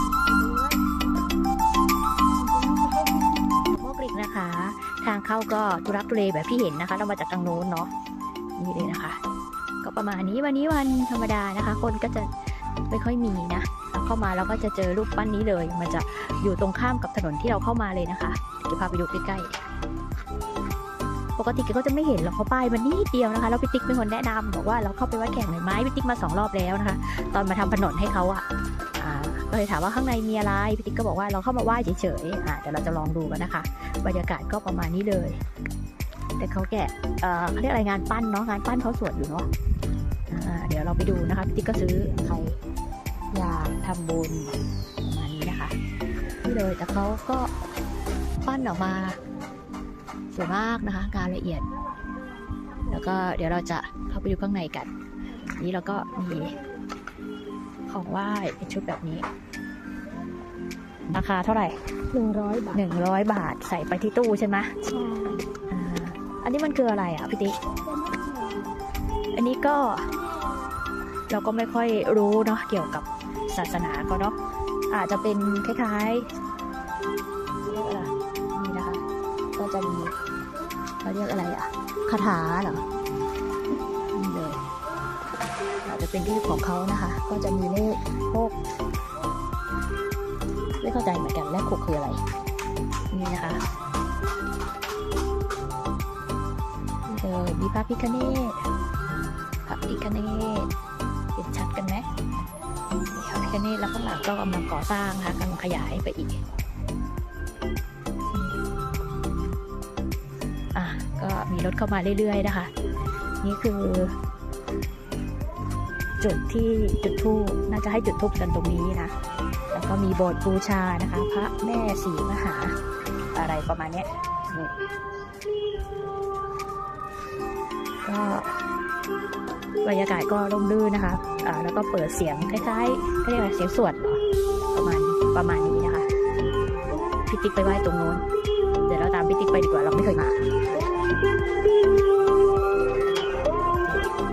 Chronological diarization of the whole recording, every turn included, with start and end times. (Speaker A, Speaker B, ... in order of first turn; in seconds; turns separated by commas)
Speaker A: 0.3-0.8, Speaker A: 2.4-3.3, Speaker B: 3.8-7.9, Speaker B: 8.6-9.2, Speaker B: 9.8-12.3, Speaker B: 12.9-19.6, Speaker B: 21.4-28.4, Speaker B: 29.0-35.4, Speaker B: 36.4-39.5, Speaker B: 40.3-42.6, Speaker B: 43.3-45.7, Speaker B: 46.4-47.5, Speaker B: 48.4-49.2, Speaker B: 50.3-51.6, Speaker B: 52.9-54.9, Speaker B: 55.5-56.5, Speaker B: 57.9-59.2, Speaker B: 61.1-61.7, Speaker A: 62.1-62.7, Speaker B: 62.7-64.7, Speaker A: 64.9-65.4, Speaker B: 65.7-67.6, Speaker A: 68.0-68.7, Speaker B: 69.3-70.0, Speaker B: 71.3-74.4, Speaker B: 74.9-76.2, Speaker B: 77.6-79.0, Speaker B: 79.5-80.1, Speaker B: 81.0-82.8, Speaker B: 84.1-84.6, Speaker B: 85.8-88.5, Speaker B: 90.8-92.2, Speaker B: 93.1-93.6, Speaker B: 97.1-98.6, Speaker B: 99.7-100.7, Speaker B: 101.3-102.1, Speaker B: 103.1-106.4, Speaker B: 110.7-112.7, Speaker B: 113.4-114.1, Speaker B: 116.2-119.1, Speaker B: 119.7-122.7, Speaker B: 123.3-124.8, Speaker B: 128.0-128.5, Speaker B: 129.8-134.2, Speaker B: 134.7-136.1, Speaker B: 137.3-138.2, Speaker B: 138.8-140.3